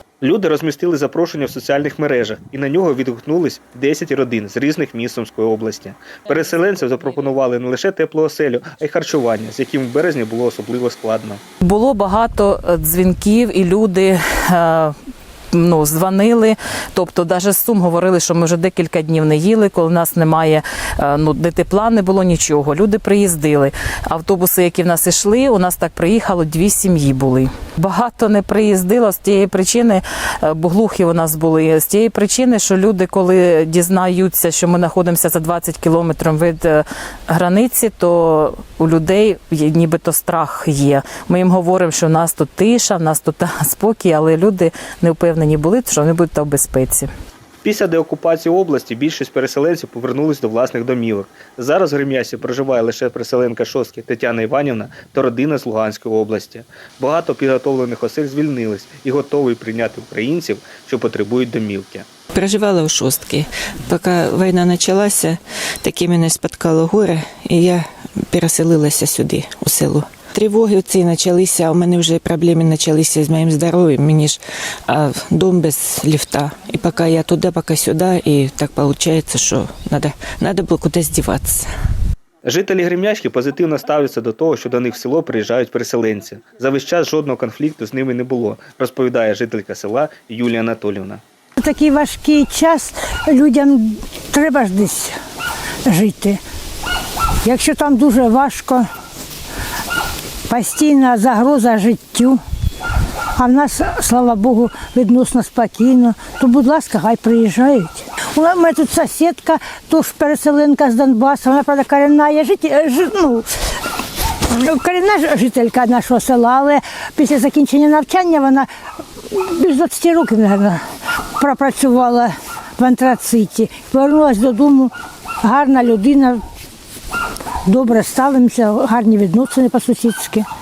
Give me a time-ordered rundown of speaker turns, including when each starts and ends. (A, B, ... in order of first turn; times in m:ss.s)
0:00.2-0:11.4 A
0:11.6-0:15.0 B
0:15.5-0:47.1 B
0:47.6-1:02.0 A
1:02.3-1:21.6 C
1:22.4-1:31.2 A
1:31.6-1:35.1 D
1:35.9-1:36.4 D
1:37.4-1:38.9 D
1:40.5-1:42.4 D
1:43.4-1:53.4 D
1:54.5-1:58.7 D
1:59.3-2:00.8 D
2:01.4-2:04.9 D
2:05.4-2:06.4 D
2:07.6-2:10.4 D